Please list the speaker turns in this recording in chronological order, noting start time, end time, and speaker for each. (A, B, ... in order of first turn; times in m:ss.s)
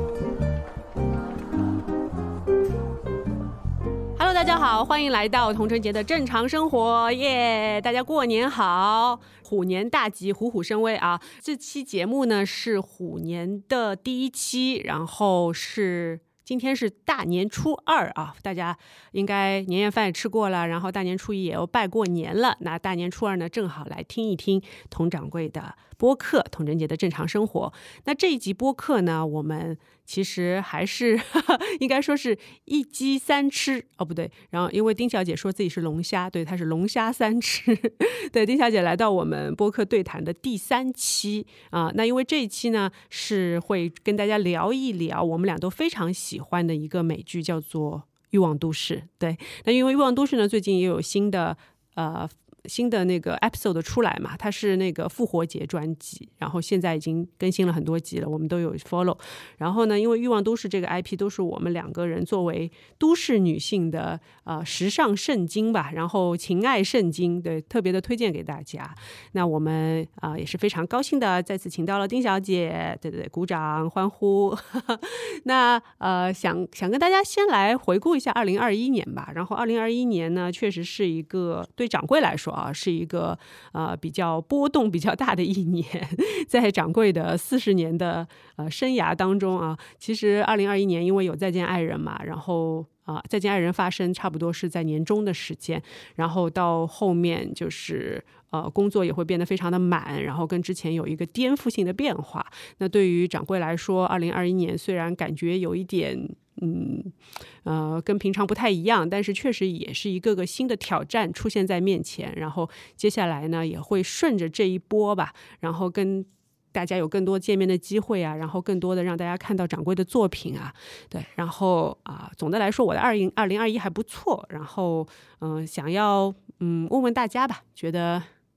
0:04.2-2:08.3 A